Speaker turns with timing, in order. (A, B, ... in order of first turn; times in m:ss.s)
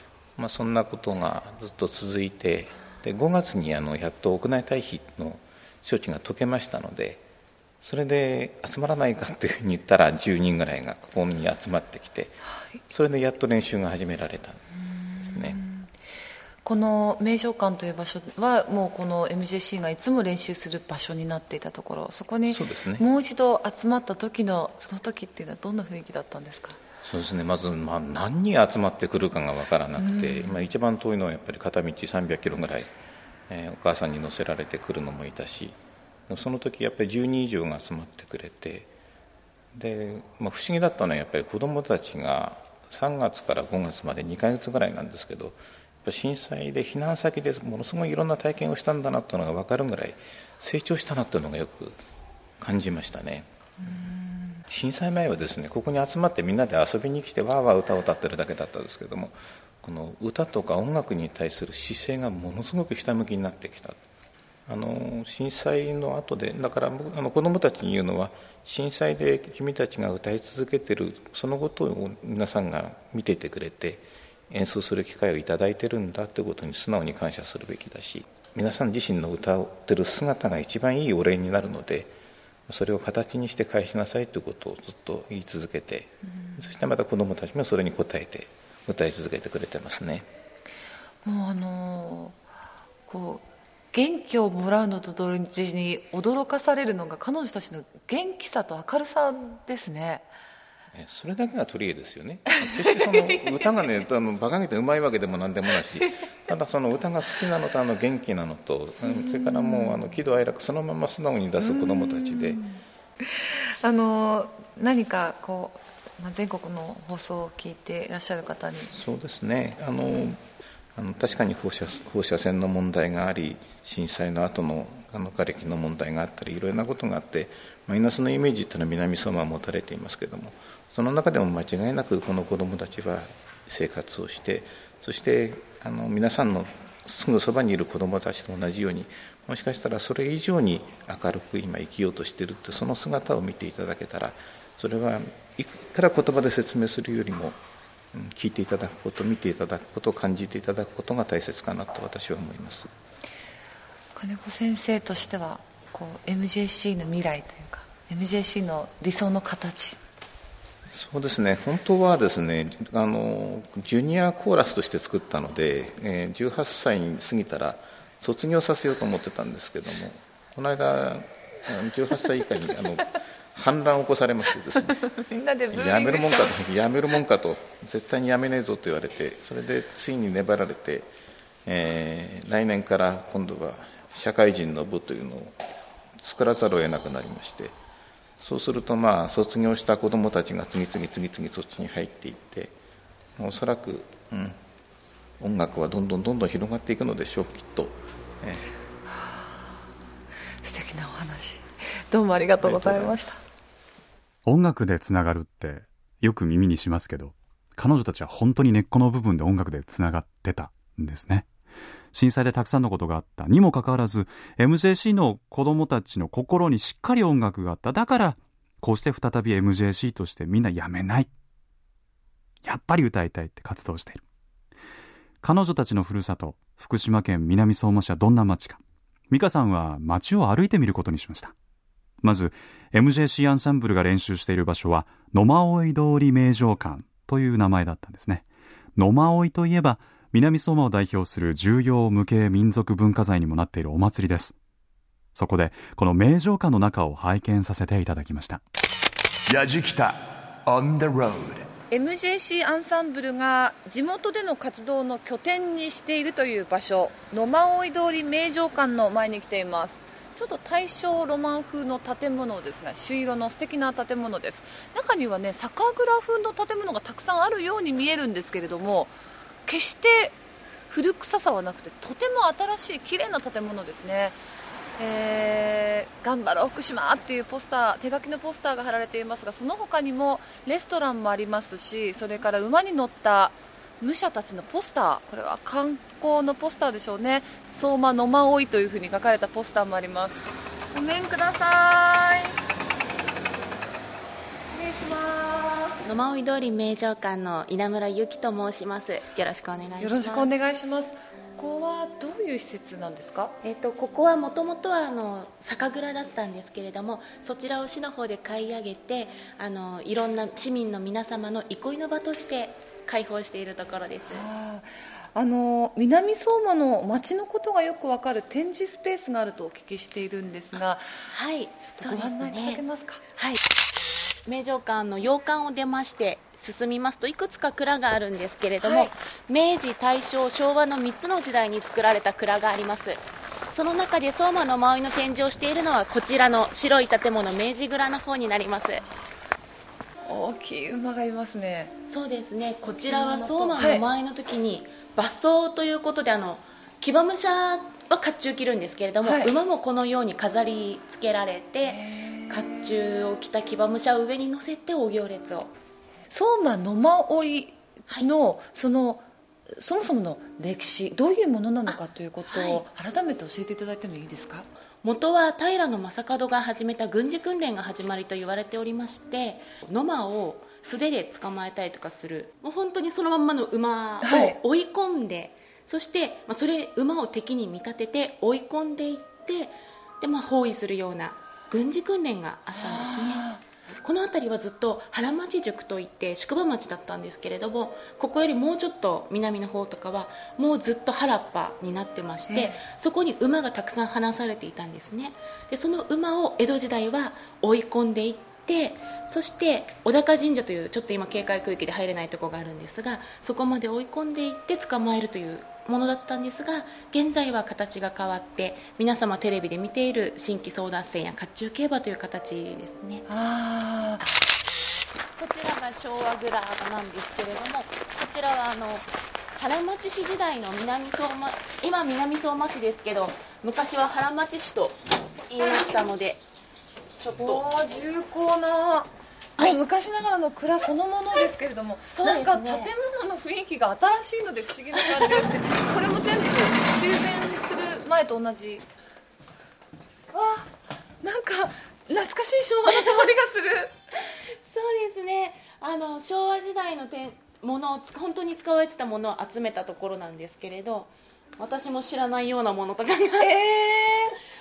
0:00.4-0:07.2 A
0:07.8-0:12.4 A
0:12.9-0:14.6 A
0:14.9-0:15.9 B
0:15.2-0:15.6 A
0:16.6-0:26.8 B
0:22.5-0:23.1 A
0:27.0-0:32.9 A
0:30.0-0:30.7 B
0:33.5-0:38.9 A
0:39.7-0:52.0 A
0:52.6-0:53.5 A
0:53.9-0:54.6 B
0:54.7-1:04.0 A
1:04.7-1:22.1 A
1:22.7-1:30.3 A
1:31.2-1:32.4 B
1:33.1-1:40.3 B
1:40.9-1:52.6 A
1:49.1-1:50.0 B
1:51.6-1:52.8 B
1:53.3-1:59.0 B
1:58.9-2:00.4 A
2:01.0-2:27.6 A
2:28.1-2:32.9 A
2:34.2-2:40.0 B
2:40.9-2:55.1 A
2:55.1-2:56.5 B
2:55.7-3:01.1 A
3:01.7-3:05.6 A
3:06.2-3:07.8 A
3:08.4-3:12.7 A
3:13.4-3:14.6 A
3:15.4-3:18.7 A
3:19.1-3:19.7 B
3:20.6-3:23.4 B
3:22.6-3:23.3 A
3:24.5-3:31.5 C
3:32.1-3:41.3 C
3:42.6-3:44.2 C
3:45.4-3:51.5 C
3:52.2-3:58.4 C
3:59.0-4:04.6 C
4:05.4-4:08.6 C
4:09.5-4:11.7 D
4:11.9-4:29.1 B
4:29.7-4:30.4 B
4:30.9-4:34.4 B
4:35.0-4:52.6 B
4:54.7-4:56.0 B
4:56.0-5:00.5 E
5:00.0-5:03.6 B
5:03.6-5:14.4 E
5:14.3-5:21.2 B
5:21.3-5:22.8 E
5:21.9-5:23.2 B
5:24.5-5:39.0 E
5:28.8-5:29.1 B
5:40.3-5:41.9 B
5:42.1-5:55.7 E
5:43.1-5:44.0 B
5:49.2-5:49.5 B
5:51.8-5:52.5 B
5:56.3-6:04.7 B
6:02.5-6:02.8 E
6:05.0-6:53.2 E
6:14.2-6:14.6 B
6:22.8-6:23.6 B
6:32.5-6:32.8 B
6:53.3-6:54.3 B
6:55.4-7:06.4 E
7:07.2-7:07.6 E
7:07.4-7:18.8 B
7:12.2-7:12.9 E
7:20.3-7:20.7 B
7:21.2-7:23.9 B
7:24.3-7:33.6 E
7:33.4-7:34.4 B